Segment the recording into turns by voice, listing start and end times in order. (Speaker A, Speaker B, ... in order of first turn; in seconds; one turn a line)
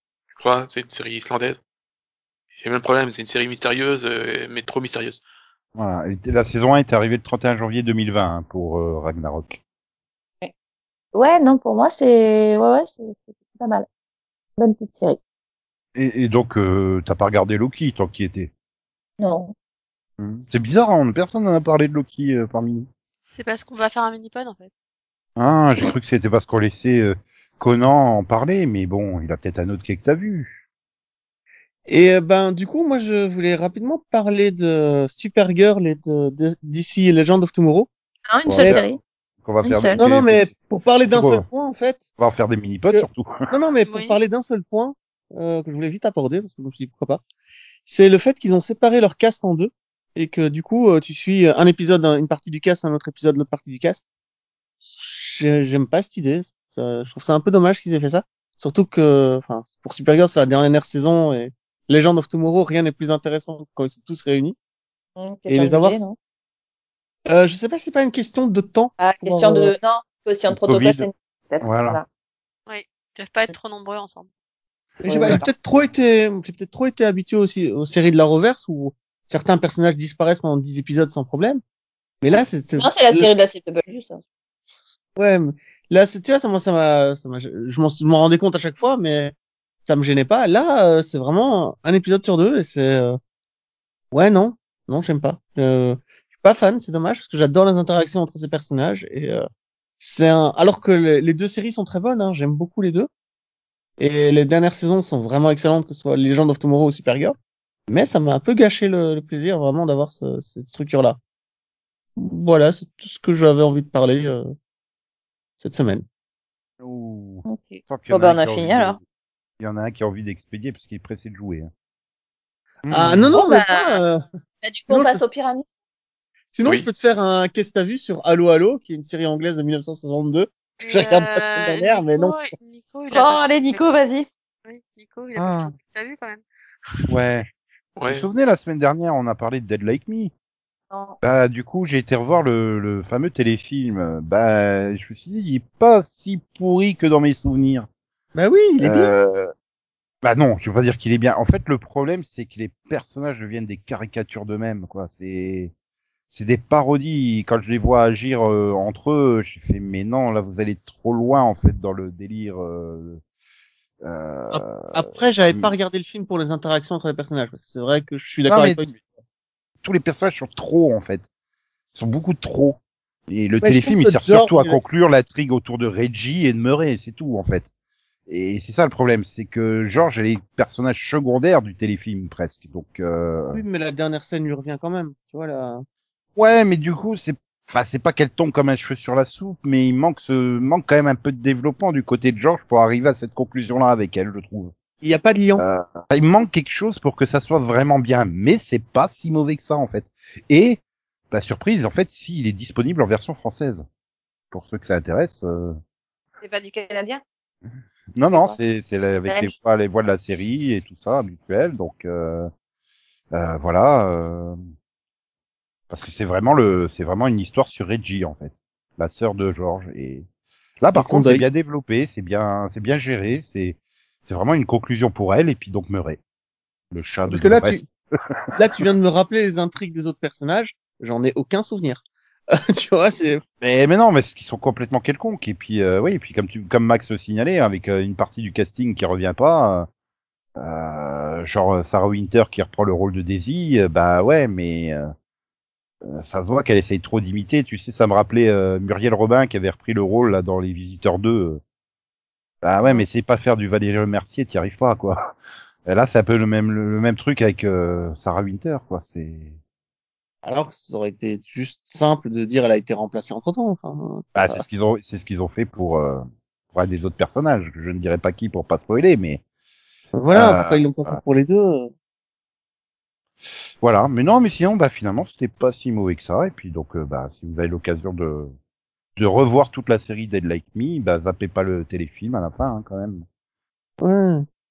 Speaker A: 0.3-1.6
Speaker A: 2.6-5.2
Speaker B: 5.7-9.6
Speaker C: 11.1-13.8
Speaker C: 14.6-15.2
Speaker B: 15.9-18.5
Speaker C: 19.2-19.5
Speaker B: 20.2-22.9
Speaker D: 23.3-24.7
Speaker B: 25.4-30.6
Speaker E: 31.9-37.9
Speaker C: 38.3-39.0
Speaker B: 38.5-38.9
Speaker E: 38.6-38.8
Speaker B: 39.4-40.5
Speaker C: 39.6-40.0
Speaker E: 40.0-42.1
Speaker B: 41.1-41.5
Speaker B: 42.2-43.5
Speaker E: 42.9-47.2
Speaker D: 43.9-44.2
Speaker E: 47.9-54.0
Speaker E: 54.9-64.5
Speaker C: 65.2-66.2
Speaker E: 65.5-66.0
Speaker E: 67.3-69.7
Speaker C: 69.0-72.0
Speaker B: 70.5-71.1
Speaker B: 71.6-72.0
Speaker D: 72.7-74.3
Speaker E: 75.0-81.6
Speaker C: 75.1-75.5
Speaker E: 82.2-83.3
Speaker C: 82.8-84.2
Speaker E: 85.2-89.3
Speaker E: 89.8-93.2
Speaker E: 94.1-99.4
Speaker E: 100.0-103.1
Speaker E: 104.0-107.3
Speaker E: 107.9-111.2
Speaker E: 112.2-114.5
Speaker E: 115.6-116.0
Speaker B: 116.8-119.0
Speaker C: 117.5-119.0
Speaker B: 119.6-121.7
Speaker B: 122.8-123.3
Speaker E: 122.9-124.2
Speaker C: 123.3-124.0
Speaker C: 124.6-125.7
Speaker E: 124.9-125.2
Speaker E: 126.5-132.3
Speaker D: 130.8-133.8
Speaker C: 133.1-134.3
Speaker D: 134.6-136.4
Speaker B: 135.3-135.7
Speaker B: 137.1-137.5
Speaker A: 138.0-138.3
Speaker B: 138.1-140.3
Speaker C: 140.9-141.2
Speaker B: 141.2-147.9
Speaker E: 148.3-149.1
Speaker B: 148.8-149.5
Speaker B: 150.2-155.7
Speaker B: 156.3-163.2
Speaker B: 164.0-165.7
Speaker E: 164.5-169.0
Speaker B: 168.5-169.0
Speaker B: 169.8-171.2
Speaker B: 171.9-177.7
Speaker E: 173.6-174.9
Speaker B: 178.3-183.6
Speaker E: 183.5-185.8
Speaker B: 186.3-194.7
Speaker E: 195.0-195.6
Speaker B: 195.6-200.8
Speaker B: 201.3-203.8
Speaker B: 204.5-205.8
Speaker C: 206.4-207.2
Speaker B: 208.1-212.5
Speaker C: 208.3-208.6
Speaker B: 213.3-214.6
Speaker B: 215.9-220.2
Speaker B: 220.8-226.2
Speaker E: 220.9-221.4
Speaker B: 226.9-227.8
Speaker E: 227.3-227.8
Speaker E: 228.5-233.4
Speaker B: 233.6-239.9
Speaker B: 240.6-245.1
Speaker B: 246.0-251.6
Speaker B: 252.6-259.6
Speaker E: 260.4-264.6
Speaker B: 264.3-269.4
Speaker E: 270.1-271.9
Speaker B: 270.3-271.2
Speaker B: 273.8-278.5
Speaker B: 279.1-283.2
Speaker E: 284.0-284.4